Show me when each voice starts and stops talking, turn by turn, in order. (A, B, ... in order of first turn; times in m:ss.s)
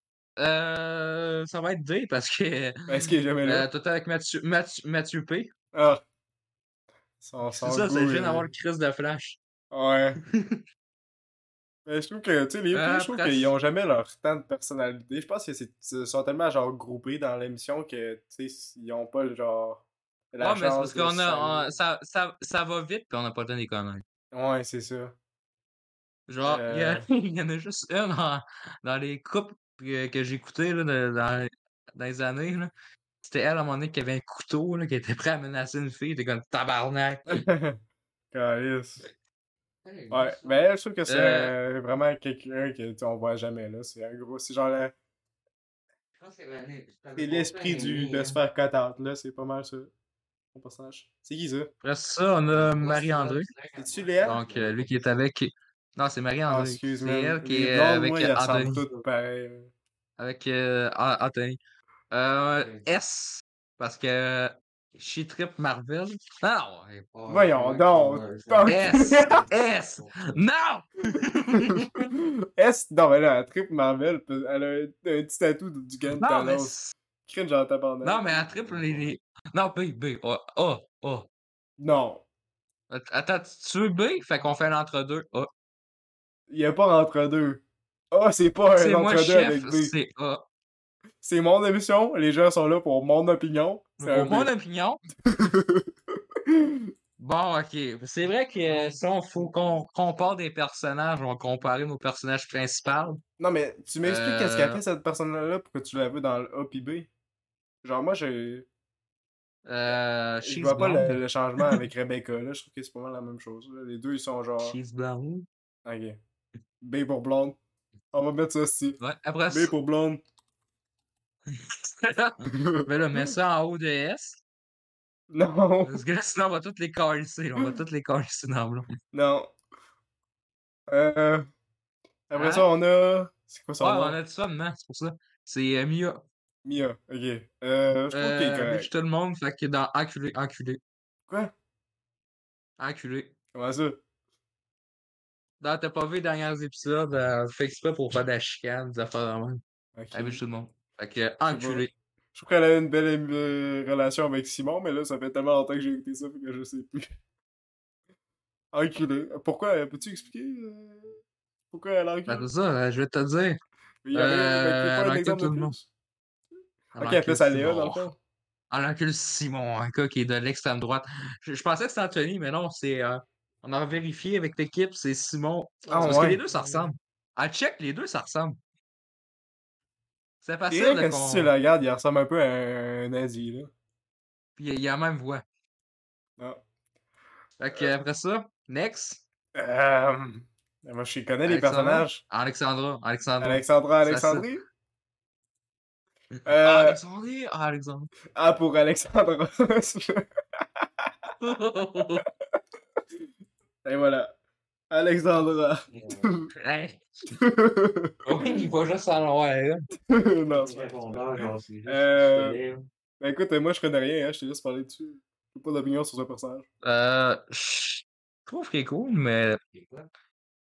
0:00.4-0:05.5 A
0:02.9-0:03.7 B
0:05.7-0:06.0 B
0:07.2-0:08.5 B
0:07.5-0:09.4 A
0:09.7-0:10.2 B
0:10.2-0:10.6 A
0:11.8-0:21.7 B
0:12.7-0:13.5 A
0:20.4-0:24.0 A
0:24.3-0:25.2 B
0:26.3-0:32.7 A
0:26.4-0:27.0 B
0:33.2-0:37.4 A
0:37.3-0:37.8 B
0:38.3-0:39.0 B
0:39.8-0:40.6 C
0:40.1-0:44.9 B
0:41.1-0:41.5 A
0:46.1-0:48.4 C
0:47.2-0:49.9 B
0:50.5-0:51.7 B
0:51.8-0:53.5 A
0:52.5-0:55.2 C
0:53.8-0:54.4 B
0:54.2-0:58.8 A
0:56.5-0:59.7 B
1:00.2-1:01.6 A
1:02.1-1:06.8 A
1:02.5-1:02.9 C
1:06.8-1:10.4 C
1:07.3-1:09.4 B
1:08.7-1:12.1 A
1:11.5-1:16.7 B
1:16.1-1:16.9 A
1:17.2-1:18.2 B
1:18.0-1:21.3 A
1:18.2-1:19.2 C
1:21.8-1:22.2 B
1:22.9-1:25.5 A
1:26.5-1:29.9 B
1:28.8-1:30.4 A
1:31.2-1:34.5 B
1:34.0-1:35.0 A
1:35.2-1:35.9 B
1:36.5-1:36.8 B
1:37.2-1:43.2 A
1:38.7-1:39.0 C
1:43.4-1:47.1 B
1:44.0-1:44.8 A
1:47.8-1:48.7 B
1:49.6-1:51.8 A
1:50.4-1:54.8 B
1:54.6-1:55.5 A
1:55.8-1:56.2 B
1:56.8-1:57.6 B
1:58.1-2:00.2 B
1:59.0-1:59.7 A
2:01.5-2:04.4 A
2:02.5-2:02.9 B
2:05.3-2:06.0 B
2:05.8-2:08.9 A
2:09.1-2:09.5 B
2:10.9-2:11.5 B
2:12.3-2:14.2 B
2:12.3-2:12.7 A
2:13.8-2:16.2 A
2:16.6-2:18.9 B
2:18.1-2:20.8 A
2:22.8-2:23.3 A
2:23.5-2:24.0 B
2:25.6-2:29.6 A
2:30.0-2:30.4 B
2:30.1-2:31.9 A
2:31.5-2:37.1 B
2:38.7-2:41.2 B
2:41.7-2:42.5 B
2:42.3-2:43.6 A
2:44.0-2:45.9 B
2:44.1-2:45.8 A
2:46.9-2:48.1 A
2:47.0-2:48.2 B
2:48.7-2:58.6 A
2:55.9-2:56.9 C
2:55.9-2:56.4 B
3:00.4-3:01.5 A
3:00.7-3:03.7 B
3:04.6-3:05.4 A
3:07.6-3:09.2 A
3:09.5-3:12.2 B
3:11.4-3:14.5 A
3:13.4-3:14.6 B
3:16.4-3:17.0 B
3:16.6-3:18.1 A
3:18.3-3:20.3 B
3:20.8-3:21.3 B
3:21.4-3:22.2 A
3:23.8-3:24.3 B
3:24.9-3:26.5 B
3:25.9-3:26.4 C
3:26.6-3:27.0 A
3:27.3-3:28.2 B
3:28.2-3:29.9 A
3:28.4-3:28.7 C
3:30.0-3:32.6 B
3:30.5-3:32.9 C
3:33.2-3:36.6 B
3:36.8-3:39.6 A
3:39.7-3:40.1 C